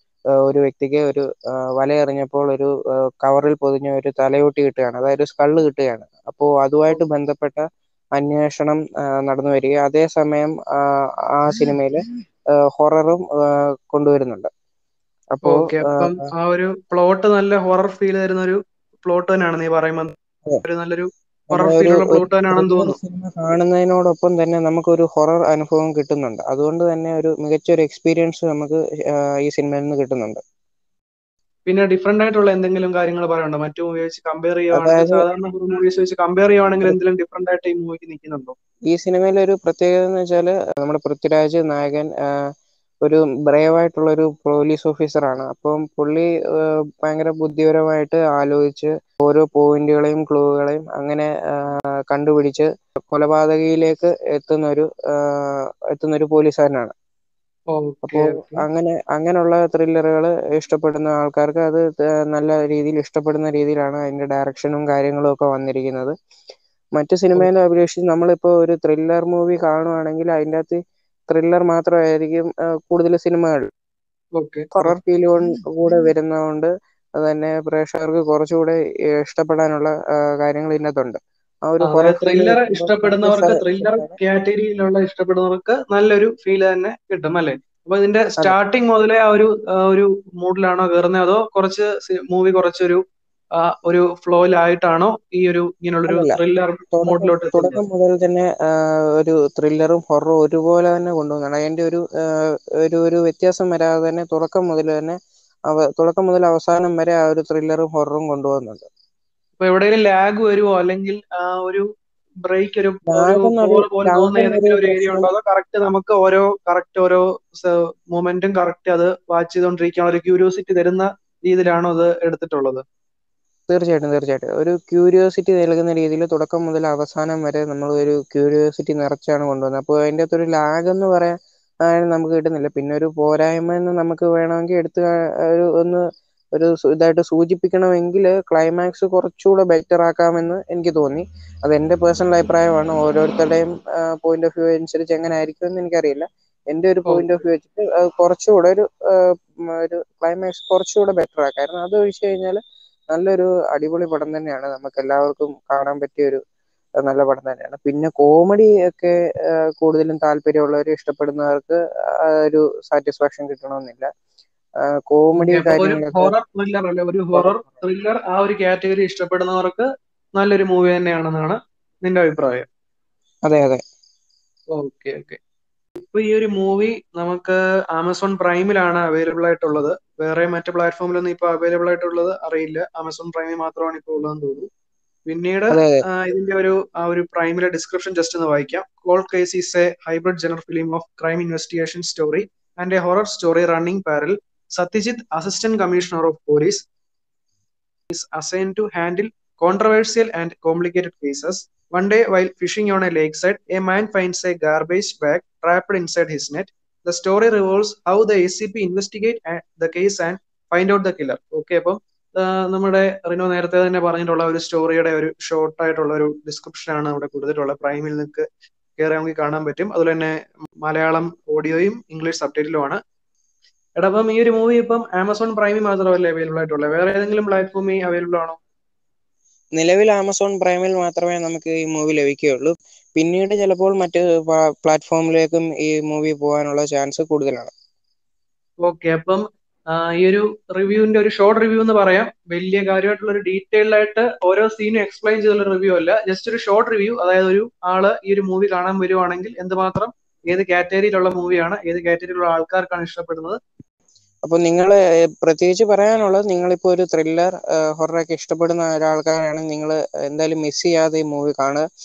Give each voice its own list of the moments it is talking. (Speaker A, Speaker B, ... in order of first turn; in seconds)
Speaker A: 0.4-7.6, 8.2-12.0, 12.5-14.5, 15.3-16.3, 21.5-30.4, 34.7-35.2, 38.9-42.1, 43.0-56.9, 58.0-66.1, 67.0-73.7, 74.8-84.2, 96.1-96.4, 96.9-105.2, 105.7-108.9, 113.1-115.3, 123.7-136.0, 136.6-152.6, 153.1-156.4, 157.0-164.1, 164.8-166.3, 167.3-167.8, 173.5-173.8, 185.7-186.0, 229.8-237.7, 254.4-261.8
Speaker B: 15.4-23.0, 31.7-38.5, 57.7-58.6, 74.4-74.9, 81.8-93.0, 93.6-97.8, 109.6-111.8, 112.5-122.8, 147.1-147.3, 165.4-172.7, 174.7-175.4, 176.0-184.7, 185.3-196.9, 198.1-218.5, 219.0-223.0, 224.0-228.6, 238.8-253.6